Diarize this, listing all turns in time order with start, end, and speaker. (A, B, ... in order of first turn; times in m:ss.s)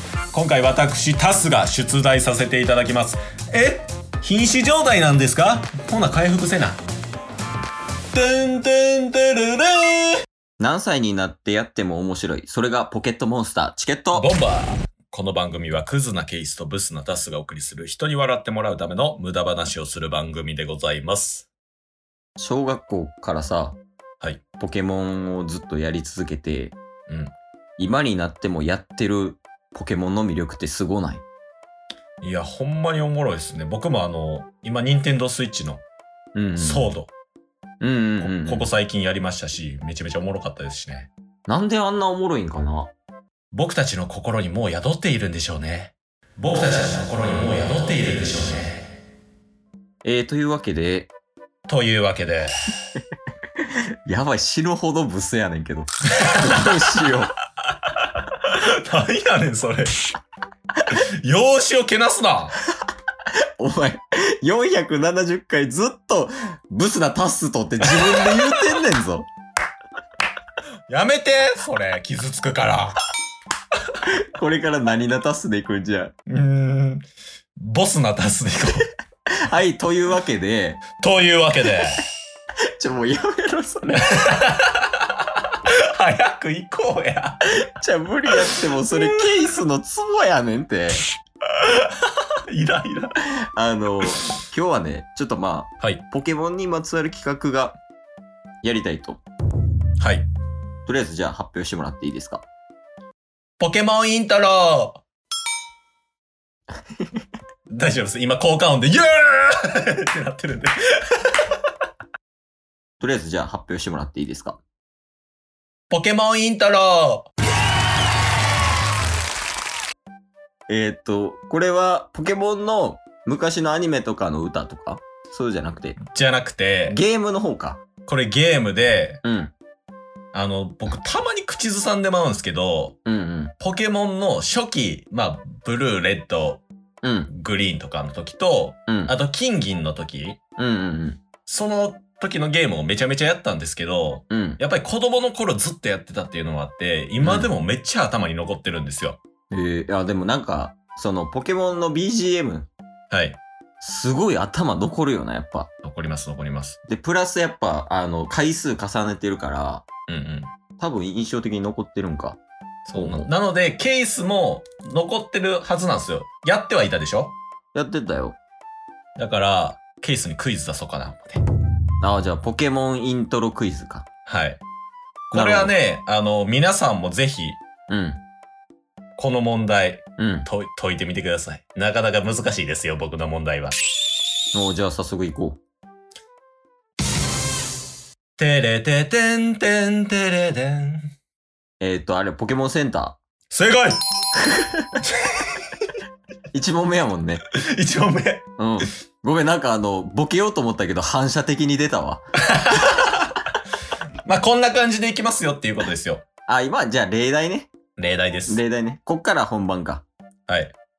0:00.3-0:06.8 A
0:08.1-0:10.2 A
0:10.6-0:14.3 B
0:14.1-0:21.5 A
0:22.4-0:23.8 B
0:24.6-0:26.7 B
0:27.1-0:27.3 A
0:27.8-0:31.2 B
0:32.2-0:35.8 A
0:36.3-0:36.9 B
0:36.6-0:37.1 A
0:37.8-0:38.7 B
0:38.2-0:41.1 A
0:41.5-0:42.9 B
0:43.5-0:48.8 A
0:50.0-0:51.1 B
0:51.7-0:52.5 A
0:54.0-0:57.3 B
0:58.1-0:59.9 A
1:00.9-1:02.6 A
1:03.6-1:09.3 B
1:07.8-1:08.6 A
1:10.9-1:13.0 A
1:14.2-1:16.1 B
1:16.3-1:17.0 A
1:17.6-1:18.9 A
1:19.4-1:20.8 B
1:20.9-1:22.0 A
1:22.8-1:24.2 B
1:24.1-1:25.0 A
1:25.9-1:27.4 A
1:27.6-1:31.0 B
1:28.4-1:29.2 A
1:31.6-1:33.2 A
1:33.2-1:37.8 B
1:38.6-1:39.2 B
1:40.0-1:40.3 A
1:40.8-1:42.4 B
1:43.6-1:45.0 A
1:47.7-1:50.7 A
1:53.0-1:54.6 B
1:55.9-1:57.3 A
2:00.7-2:06.0 B
2:06.0-2:07.0 A
2:06.9-2:07.8 B
2:08.0-2:09.2 A
2:09.2-2:09.5 B
2:10.3-2:13.0 A
2:13.0-2:13.5 B
2:13.6-2:16.6 A
2:17.0-2:17.3 B
2:17.3-2:20.4 A
2:18.9-2:19.1 B
2:20.6-2:21.2 B
2:21.4-2:29.2 A
2:24.3-2:24.6 B
2:27.2-2:27.5 B
2:29.5-2:32.7 B
2:33.1-2:33.4 A
2:33.8-2:35.7 B
2:35.8-2:36.8 A
2:36.9-2:39.9 B
2:40.1-2:40.5 A
2:40.8-2:42.4 B
2:42.9-2:47.4 A
2:42.9-2:43.3 B
2:47.7-2:48.4 B
2:49.2-2:51.4 A
2:52.0-2:54.0 B
2:54.2-2:54.6 A
2:55.3-2:57.6 A
2:55.3-2:55.7 B
2:57.9-2:58.2 B
2:59.2-3:03.8 A
3:00.2-3:00.5 B
3:04.5-3:05.6 B
3:08.4-3:11.1 A
3:11.8-3:13.2 B
3:13.5-3:14.0 A
3:14.4-3:14.9 B
3:15.0-3:15.8 A
3:16.5-3:17.4 B
3:17.6-3:18.4 A
3:18.6-3:22.2 B
3:22.5-3:23.3 A
3:24.2-3:26.2 A
3:26.5-3:27.7 B
3:28.0-3:28.6 A
3:28.5-3:30.0 B
3:30.5-3:30.7 A